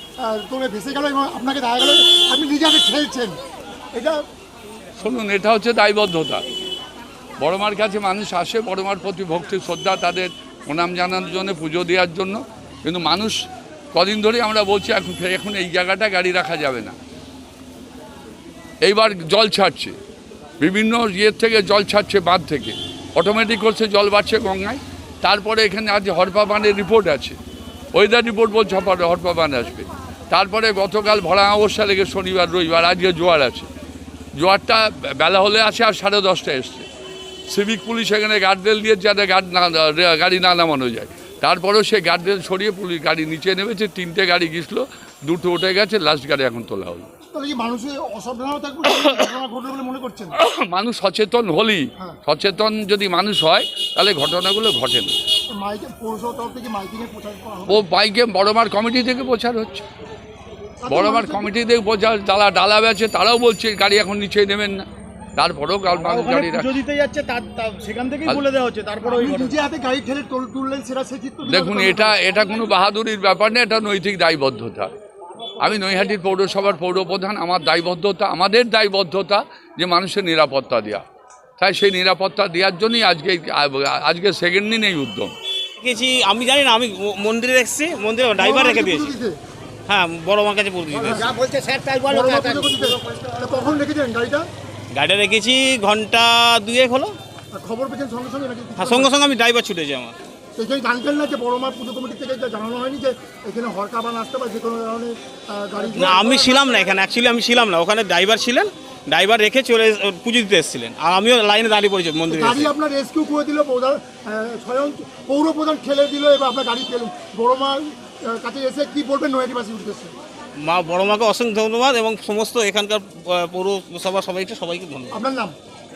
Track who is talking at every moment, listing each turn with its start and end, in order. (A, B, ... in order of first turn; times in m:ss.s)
0:00.2-0:03.4 A
0:03.9-0:04.2 A
0:05.0-0:06.4 B
0:07.4-0:13.4 B
0:13.9-0:16.9 B
0:18.8-0:19.9 B
0:20.6-0:27.4 B
0:27.9-0:33.7 B
0:34.3-0:36.8 B
0:37.5-0:47.1 B
0:47.3-0:50.3 A
0:50.4-0:55.1 B
0:55.5-0:57.8 A
0:57.7-0:59.8 B
1:00.8-1:01.5 A
1:00.9-1:04.8 B
1:05.4-1:06.8 B
1:06.0-1:09.5 C
1:09.0-1:12.2 A
1:11.4-1:14.9 B
1:15.6-1:21.0 B
1:21.6-1:25.3 B
1:25.8-1:29.1 D
1:28.4-1:29.4 A
1:29.9-1:32.8 D
1:30.9-1:31.3 A
1:32.0-1:34.5 A
1:34.9-1:37.2 D
1:37.5-1:39.1 A
1:38.8-1:40.2 D
1:40.6-1:46.4 A
1:45.8-1:52.7 D
1:52.3-2:00.1 A
2:00.6-2:05.1 D
2:05.1-2:05.6 A